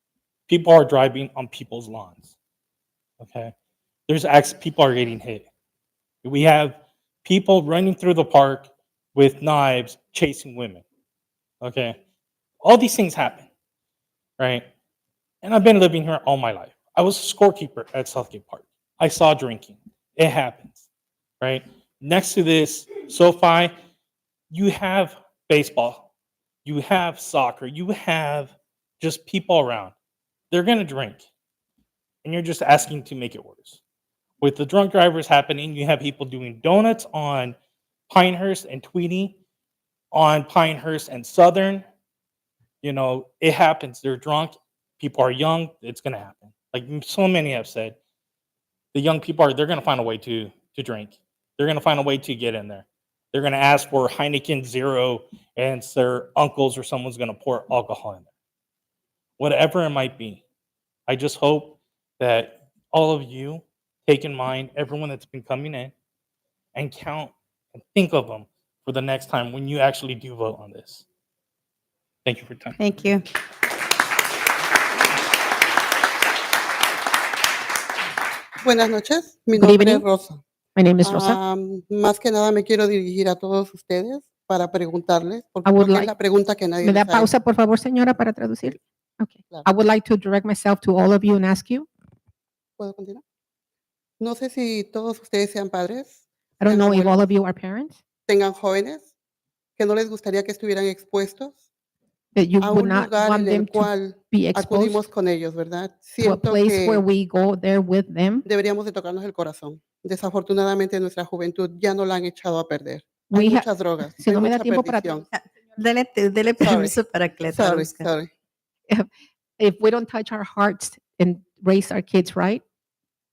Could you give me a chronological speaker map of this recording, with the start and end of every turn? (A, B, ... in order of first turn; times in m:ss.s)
0:00.5-0:02.3 A
0:03.2-0:03.5 A
0:04.1-0:05.5 A
0:06.2-0:10.8 A
0:11.6-0:12.0 A
0:12.6-0:13.5 A
0:14.4-0:14.7 A
0:15.4-0:20.8 A
0:21.4-0:23.7 A
0:24.5-0:26.0 A
0:26.6-0:29.9 A
0:30.5-0:31.2 A
0:32.2-0:33.8 A
0:34.4-0:37.6 A
0:38.1-0:39.4 A
0:40.1-0:41.8 A
0:42.8-0:48.0 A
0:48.9-0:58.3 A
0:59.4-1:00.4 A
1:01.1-1:05.9 A
1:06.7-1:07.3 A
1:07.9-1:11.0 A
1:12.2-1:12.7 A
1:18.6-1:20.4 B
1:19.5-1:20.0 C
1:20.7-1:21.4 C
1:21.0-1:27.3 B
1:25.6-1:26.1 C
1:26.8-1:31.9 C
1:32.8-1:33.2 B
1:34.2-1:37.2 B
1:36.6-1:38.0 C
1:38.3-1:39.0 B
1:39.8-1:41.5 B
1:42.3-1:45.1 C
1:42.6-1:47.0 B
1:46.2-1:48.4 C
1:48.4-1:55.3 B
1:53.3-1:55.2 C
1:55.8-1:58.1 D
1:56.6-1:57.0 B
1:57.5-1:58.3 B
1:59.6-2:02.6 C